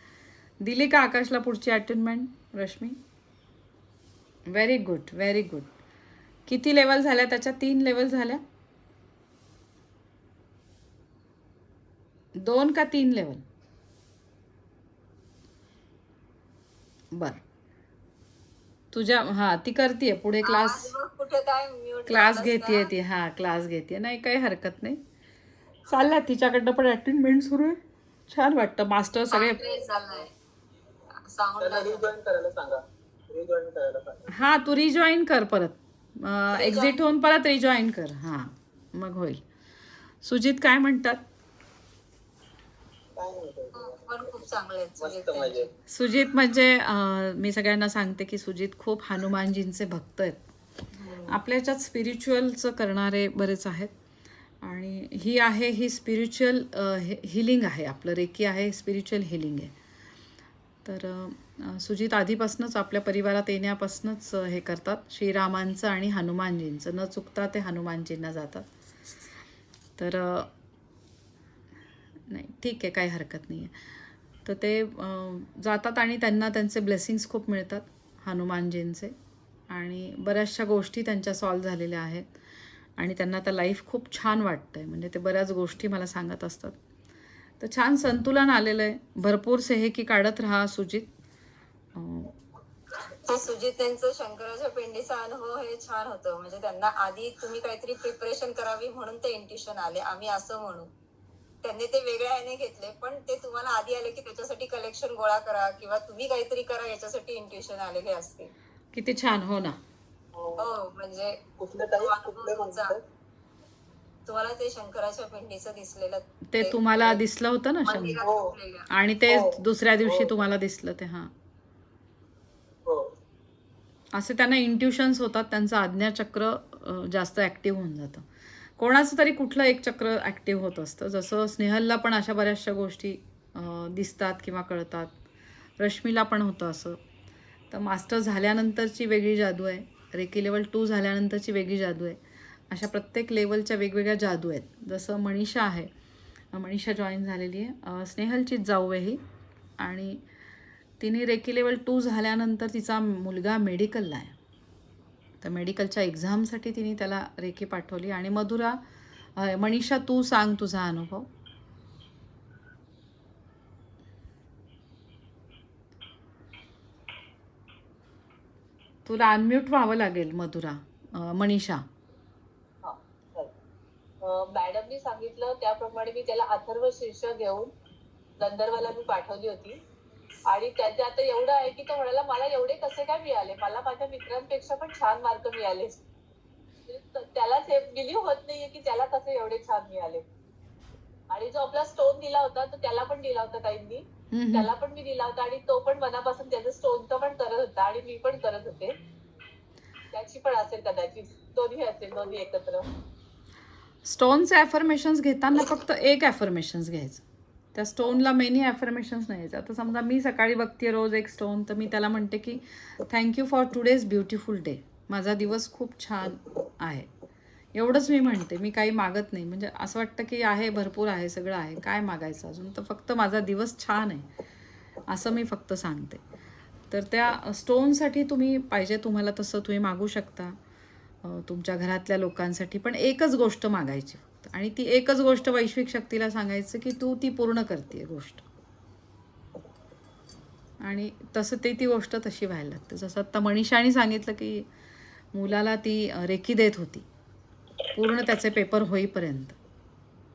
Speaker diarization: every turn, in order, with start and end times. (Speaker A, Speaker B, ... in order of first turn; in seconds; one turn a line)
Speaker A: 0.6-3.0
Speaker A: 4.5-5.7
Speaker A: 6.5-8.4
Speaker A: 12.4-13.4
Speaker A: 17.1-17.4
Speaker A: 18.9-20.9
Speaker B: 20.4-22.9
Speaker A: 22.1-25.0
Speaker A: 25.9-29.6
Speaker B: 29.3-30.3
Speaker B: 31.2-32.1
Speaker C: 31.6-34.3
Speaker A: 34.3-39.4
Speaker B: 36.5-37.0
Speaker A: 40.2-41.2
Speaker C: 43.2-45.7
Speaker B: 43.7-45.7
Speaker A: 45.9-50.4
Speaker B: 50.9-51.4
Speaker A: 51.3-53.9
Speaker A: 54.6-59.7
Speaker A: 60.8-68.7
Speaker A: 70.0-70.5
Speaker A: 72.3-73.7
Speaker A: 74.4-79.1
Speaker A: 79.7-82.3
Speaker A: 83.0-86.8
Speaker A: 87.6-91.1
Speaker A: 91.9-92.3
Speaker B: 93.1-100.9
Speaker B: 101.6-108.5
Speaker A: 108.9-109.8
Speaker C: 110.3-110.7
Speaker B: 110.6-111.4
Speaker C: 111.6-113.0
Speaker B: 111.9-112.9
Speaker B: 114.2-117.2
Speaker A: 116.5-118.2
Speaker B: 117.8-118.9
Speaker C: 118.2-118.5
Speaker A: 118.9-121.3
Speaker C: 119.3-120.3
Speaker C: 122.8-123.1
Speaker A: 124.1-128.2
Speaker A: 128.8-135.1
Speaker A: 135.8-137.0
Speaker A: 137.7-142.2
Speaker A: 142.7-145.9
Speaker A: 146.5-149.2
Speaker A: 149.8-150.2
Speaker A: 151.0-154.3
Speaker A: 155.4-158.8
Speaker A: 159.3-161.3
Speaker A: 169.0-171.8
Speaker D: 172.8-173.5
Speaker D: 174.2-177.7
Speaker D: 178.4-179.8
Speaker D: 180.5-186.0
Speaker D: 186.9-190.2
Speaker D: 191.3-198.9
Speaker A: 194.3-194.7
Speaker D: 200.1-202.9
Speaker A: 204.0-207.2
Speaker A: 207.7-217.1
Speaker A: 217.7-224.3
Speaker A: 225.1-226.2
Speaker A: 226.9-230.6
Speaker A: 231.2-238.4
Speaker A: 240.8-244.7
Speaker A: 245.3-247.1
Speaker A: 247.9-249.6